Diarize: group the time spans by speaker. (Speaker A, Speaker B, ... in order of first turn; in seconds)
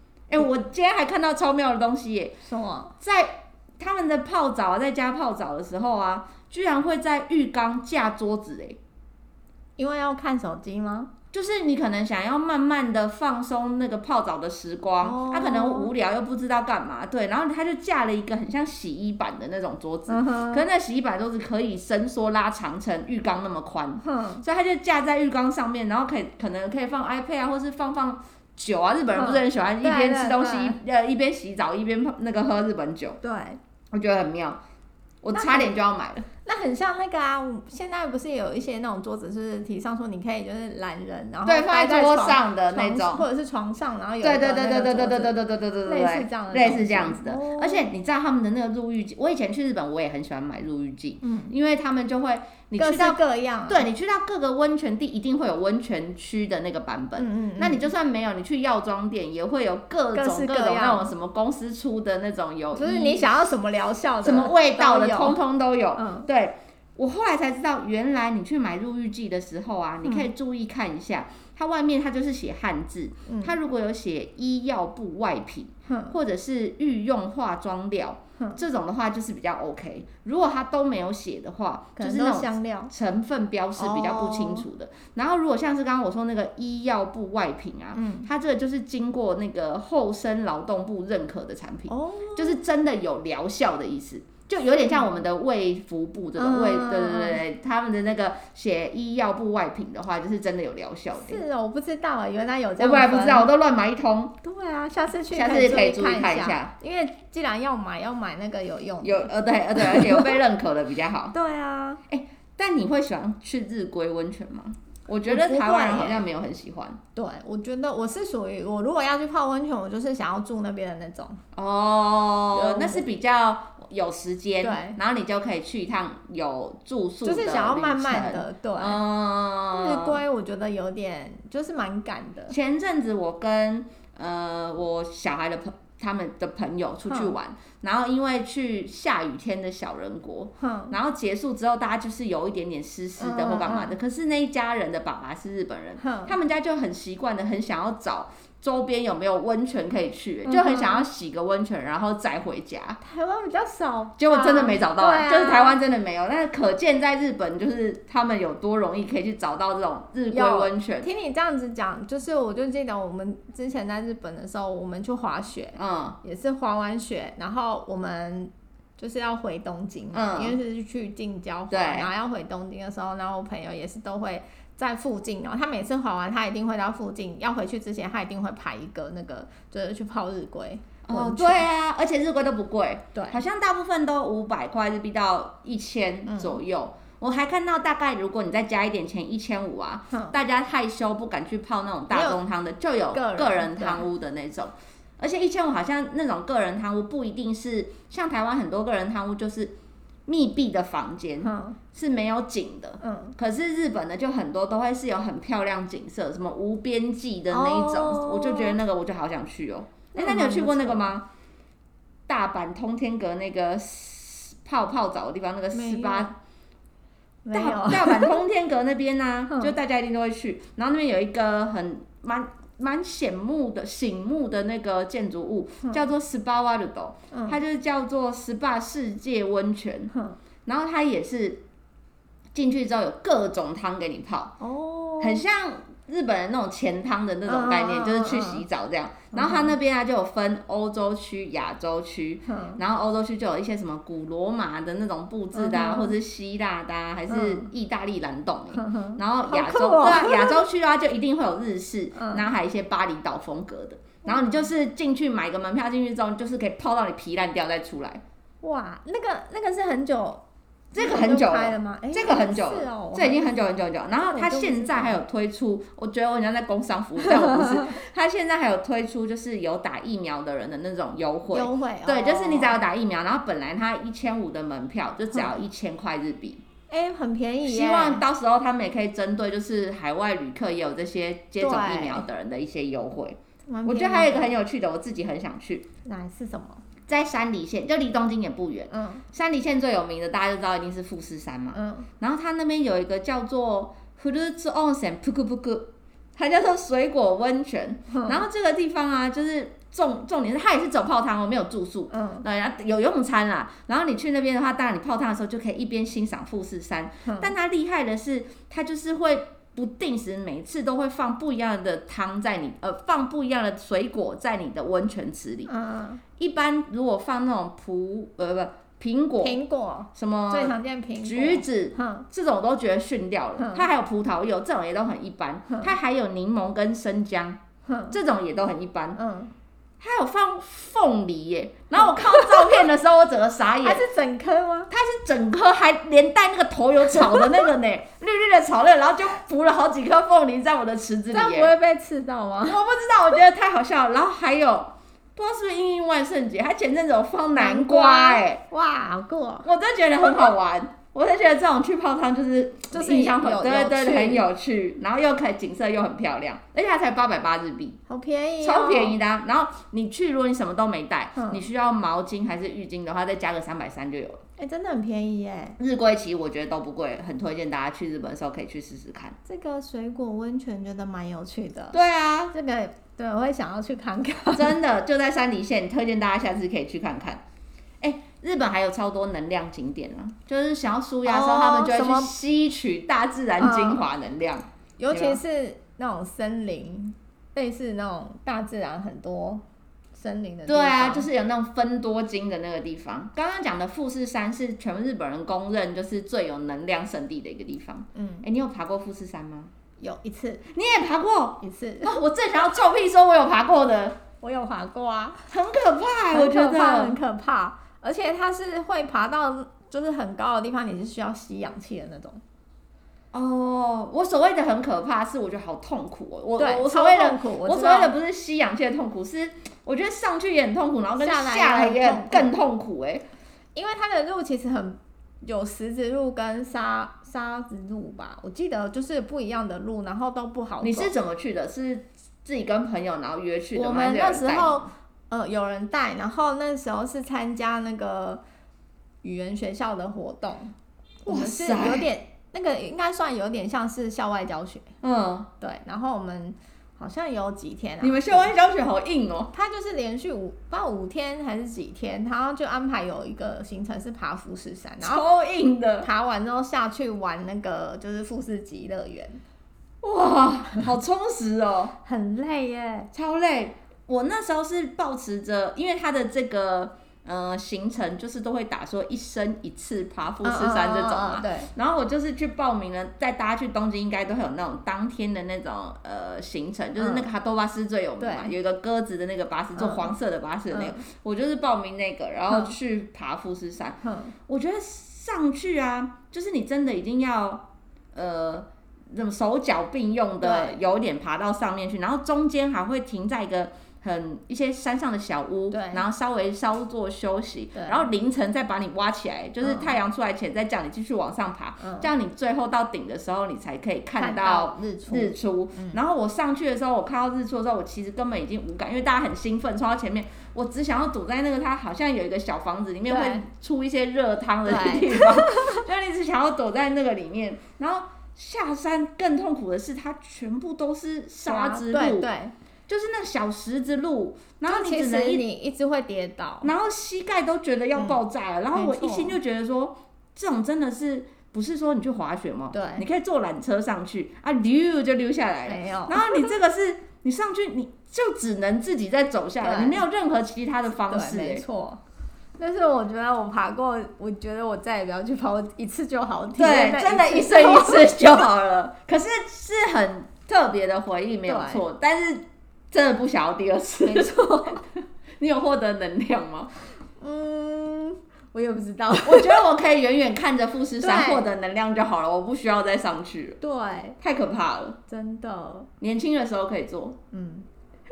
Speaker A: 0.3-2.4, 3.0-8.8, 11.3-33.2, 33.9-34.6, 35.2-36.3, 41.5-43.3, 44.2-63.3, 64.2-101.4, 102.8-104.4, 105.3-106.7, 109.0-111.3, 112.1-117.0, 121.5-130.2, 132.5-153.0, 154.2-161.1, 165.8-166.2, 170.1-170.6, 171.7-172.1, 181.1-199.8, 200.3-211.3, 212.3-216.4, 217.5-230.1, 230.7-231.6, 232.5-234.6, 235.2-258.2, 260.9-276.6, 277.6-285.9, 287.1-315.7, 316.4-319.6, 320.1-329.2, 330.0-334.0, 334.9-341.7, 342.6-348.6, 349.6-358.0, 358.6-364.4, 365.8-369.4, 371.9-372.6, 374.5-377.4, 378.0-385.4, 390.7-399.7, 400.7-404.2, 405.5-407.2, 413.3-423.3, 430.8-434.9, 441.3-442.1, 445.0-445.5, 448.0-449.5, 455.0-456.1, 460.0-461.9, 463.1-522.3, 522.9-525.4, 526.6-541.6, 546.6-554.4, 554.9-556.7, 559.2-563.6, 564.2-565.0, 566.0-567.2
Speaker B: 2.5-2.9, 9.8-11.1, 15.0-15.9, 20.1-20.7, 24.0-24.4, 29.1-30.8, 33.2-33.6, 35.3-35.7, 36.4-47.9, 51.2-51.5, 52.8-53.9, 57.2-57.9, 60.1-61.1, 62.7-65.4, 66.0-66.3, 73.3-73.5, 75.9-76.2, 82.0-82.9, 83.8-84.7, 87.9-88.3, 91.9-92.6, 96.4-97.4, 101.2-103.5, 104.4-110.4, 111.3-112.0, 115.3-116.2, 117.2-121.4, 122.5-123.0, 124.6-125.0, 127.2-129.0, 129.7-132.6, 137.1-137.3, 140.6-141.0, 143.2-144.0, 146.0-146.3, 150.5-151.1, 153.0-155.8, 160.3-181.7, 183.2-183.4, 186.3-186.6, 192.1-192.4, 193.1-194.0, 201.4-201.8, 203.0-203.4, 207.5-208.8, 210.1-211.1, 215.7-216.3, 217.4-218.4, 219.5-219.8, 227.3-227.6, 230.1-230.4, 234.6-235.4, 237.5-238.6, 239.3-239.8, 242.5-242.8, 245.6-246.2, 247.3-247.7, 248.7-250.6, 252.1-252.5, 254.2-254.7, 258.6-260.4, 261.0-263.4, 264.2-265.2, 267.2-267.9, 271.5-272.8, 276.9-278.2, 281.6-282.2, 283.7-284.5, 286.1-286.8, 288.9-289.2, 291.7-292.1, 298.1-298.4, 302.1-302.5, 307.2-307.5, 315.7-316.2, 319.4-322.3, 323.6-323.9, 325.7-325.9, 327.9-328.2, 329.2-329.5, 331.9-332.9, 333.8-334.9, 341.3-342.8, 347.6-349.7, 352.9-354.5, 358.1-359.2, 361.4-361.6, 364.6-365.8, 369.4-372.0, 372.5-374.8, 381.2-382.3, 383.6-384.1, 385.0-391.3, 398.1-398.5, 400.0-400.6, 401.6-402.2, 404.4-405.5, 406.3-412.4, 416.6-418.1, 421.2-422.5, 423.8-431.1, 433.8-438.4, 439.2-440.7, 441.3-444.9, 445.6-448.5, 449.5-455.2, 456.0-459.4, 462.0-463.1, 470.4-471.7, 477.0-477.3, 478.2-478.5, 479.8-480.1, 480.7-481.1, 482.5-482.8, 484.0-484.3, 490.4-490.8, 495.7-496.1, 497.8-498.1, 499.6-499.9, 501.8-502.1, 504.2-506.0, 513.1-513.5, 514.7-515.8, 521.5-522.5, 524.7-526.7, 528.7-529.4, 532.7-533.0, 535.7-536.5, 539.6-540.0, 541.0-542.0, 542.6-548.1, 551.5-551.8, 554.0-554.8, 557.2-559.7, 561.0-561.5, 563.6-564.2, 565.1-565.9, 567.3-567.7